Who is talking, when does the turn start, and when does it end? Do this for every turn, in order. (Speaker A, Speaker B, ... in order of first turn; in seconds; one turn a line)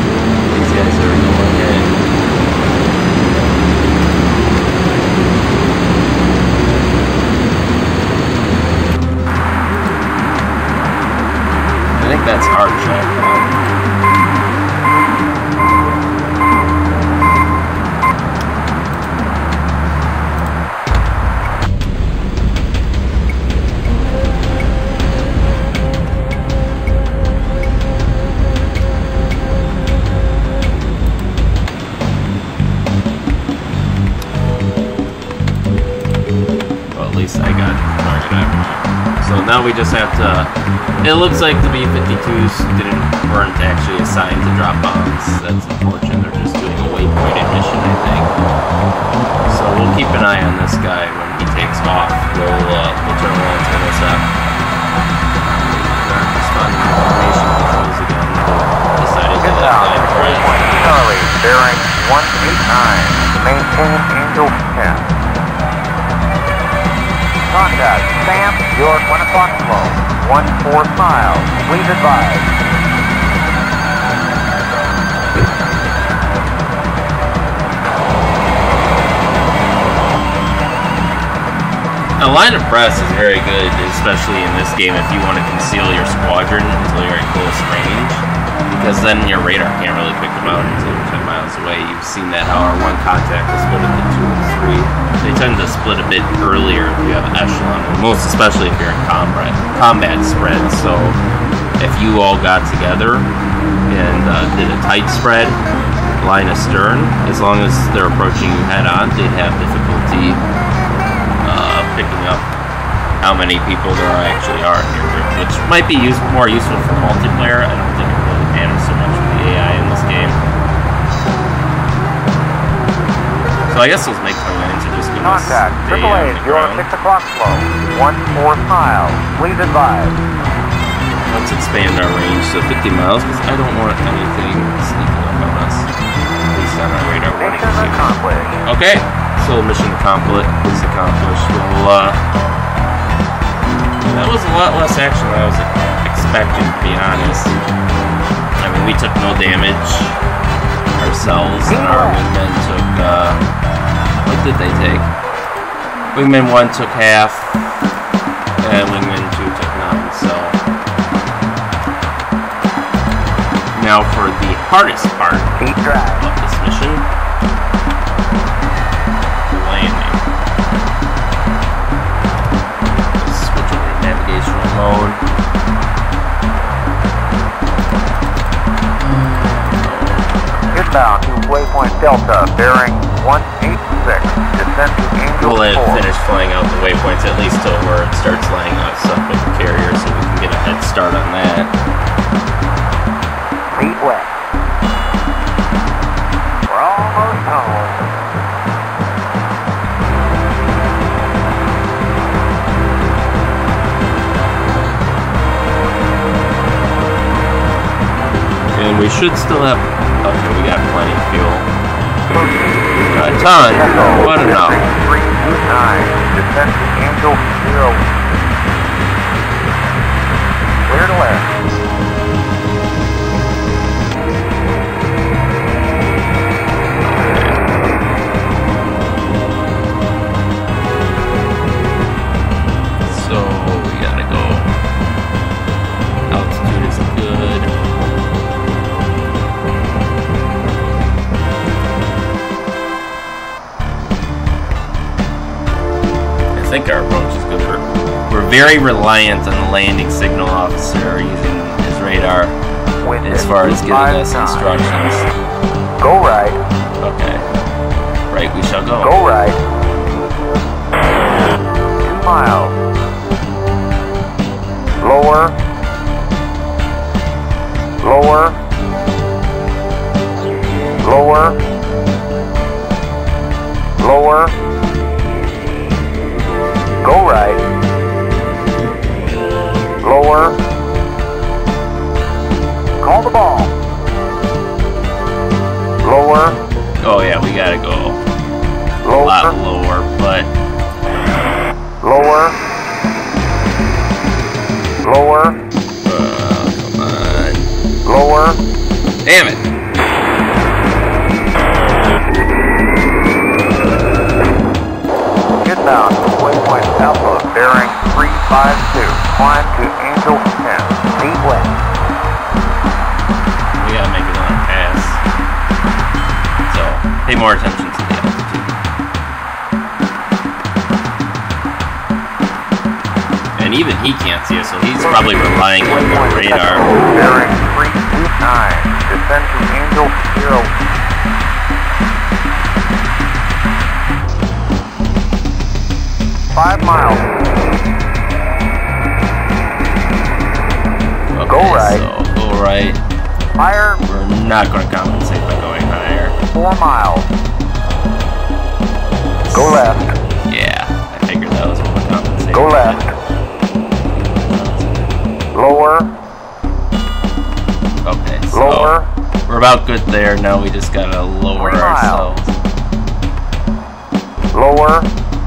Speaker A: 0.5-2.0
Speaker A: 11.9-13.7
Speaker A: 36.9-48.3
Speaker A: 49.4-54.3
Speaker A: 55.4-60.7
Speaker B: 59.4-65.1
Speaker B: 67.5-72.5
Speaker A: 82.2-101.2
Speaker A: 101.8-103.3
Speaker A: 103.9-105.6
Speaker A: 106.2-110.4
Speaker A: 111.4-112.5
Speaker A: 113.2-120.4
Speaker A: 123.7-126.9
Speaker B: 125.2-130.2
Speaker A: 131.2-135.9
Speaker A: 136.5-138.1
Speaker B: 137.4-138.6
Speaker A: 138.6-142.2
Speaker A: 144.1-147.6
Speaker A: 148.6-150.2
Speaker A: 151.0-153.4
Speaker B: 151.7-152.2
Speaker A: 154.2-155.1
Speaker A: 156.1-157.9
Speaker A: 158.6-160.6
Speaker A: 163.7-165.6
Speaker B: 165.6-166.3
Speaker A: 166.2-167.1
Speaker A: 169.4-170.2
Speaker A: 173.2-175.2
Speaker A: 179.0-180.8
Speaker B: 180.7-186.0
Speaker A: 185.4-191.7
Speaker B: 193.7-194.3
Speaker B: 196.7-198.0
Speaker A: 208.7-211.7
Speaker B: 212.3-212.6
Speaker A: 213.1-214.8
Speaker B: 213.4-218.1
Speaker B: 220.9-221.5
Speaker A: 233.0-234.7
Speaker A: 236.3-237.7
Speaker A: 246.5-252.6
Speaker B: 253.0-254.7
Speaker A: 253.2-255.3
Speaker B: 256.0-256.6
Speaker A: 257.0-257.4
Speaker A: 258.3-259.1
Speaker B: 259.0-259.6
Speaker B: 262.0-262.7
Speaker B: 265.0-265.6
Speaker B: 268.0-268.6
Speaker B: 271.0-271.6
Speaker B: 274.0-274.5
Speaker B: 277.0-277.6
Speaker B: 280.0-280.6
Speaker B: 283.0-283.7
Speaker B: 286.0-286.6
Speaker A: 287.0-288.2
Speaker B: 289.0-289.5
Speaker A: 289.1-290.5
Speaker B: 292.0-292.6
Speaker B: 295.0-295.6
Speaker A: 296.0-297.7
Speaker B: 298.0-298.6
Speaker A: 299.2-299.6
Speaker B: 305.6-311.8
Speaker A: 313.8-315.2
Speaker A: 316.7-318.7
Speaker A: 323.6-326.9
Speaker B: 325.0-330.7
Speaker B: 336.5-337.3
Speaker A: 341.3-343.0
Speaker B: 341.5-342.1
Speaker B: 343.6-344.0
Speaker A: 344.0-346.4
Speaker B: 346.5-347.3
Speaker A: 349.4-349.8
Speaker B: 349.5-350.1
Speaker A: 350.5-353.0
Speaker B: 352.5-353.1
Speaker A: 354.2-355.1
Speaker B: 355.5-356.1
Speaker A: 358.0-358.9
Speaker B: 358.5-359.1
Speaker A: 359.5-362.5
Speaker B: 361.6-362.4
Speaker B: 364.5-365.1